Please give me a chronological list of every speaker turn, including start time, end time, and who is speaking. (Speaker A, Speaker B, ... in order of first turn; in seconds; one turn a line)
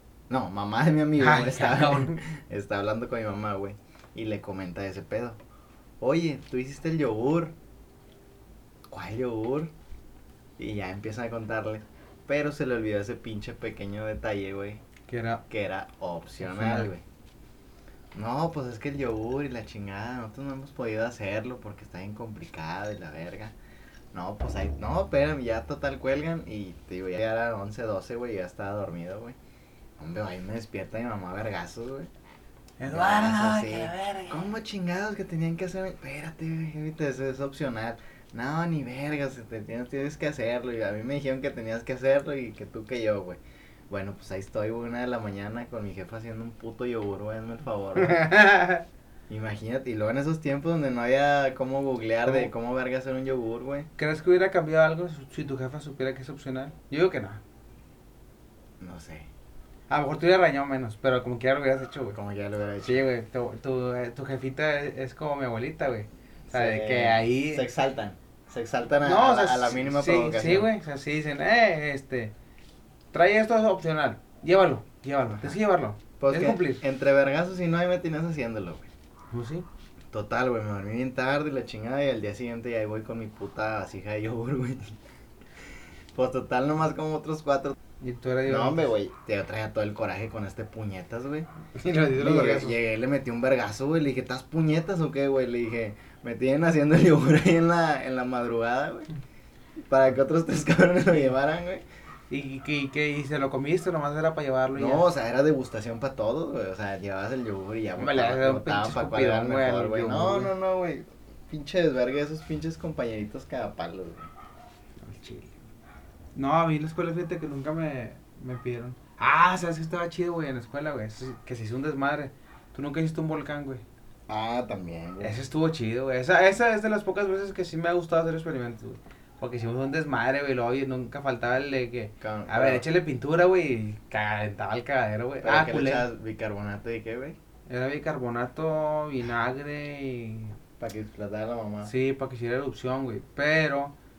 Speaker A: 0.3-5.4
Speaker B: 1.2-2.2
Speaker A: 6.0-7.5
Speaker A: 8.9-9.7
Speaker A: 10.6-14.8
Speaker B: 15.1-15.4
Speaker A: 15.5-17.0
Speaker B: 16.4-16.9
Speaker A: 18.1-23.6
Speaker A: 24.1-29.4
Speaker A: 30.0-32.1
Speaker B: 32.8-34.5
Speaker A: 32.9-48.3
Speaker B: 48.0-48.9
Speaker A: 49.3-53.9
Speaker B: 54.0-57.4
Speaker A: 58.8-59.3
Speaker B: 59.9-62.2
Speaker A: 62.1-63.1
Speaker B: 62.8-67.7
Speaker A: 66.5-70.7
Speaker B: 69.0-72.3
Speaker B: 73.1-76.8
Speaker A: 75.3-75.6
Speaker A: 76.2-78.9
Speaker B: 79.3-79.7
Speaker A: 80.1-85.0
Speaker A: 86.1-87.8
Speaker B: 88.0-88.9
Speaker A: 88.5-91.5
Speaker B: 91.8-92.8
Speaker A: 92.2-99.1
Speaker A: 99.9-101.8
Speaker B: 102.3-105.1
Speaker A: 104.8-114.3
Speaker B: 108.0-110.5
Speaker B: 115.0-115.6
Speaker B: 116.3-123.8
Speaker A: 124.3-125.4
Speaker B: 125.2-136.1
Speaker A: 132.2-132.8
Speaker A: 135.4-137.4
Speaker B: 137.7-140.6
Speaker A: 140.8-141.9
Speaker B: 141.8-143.9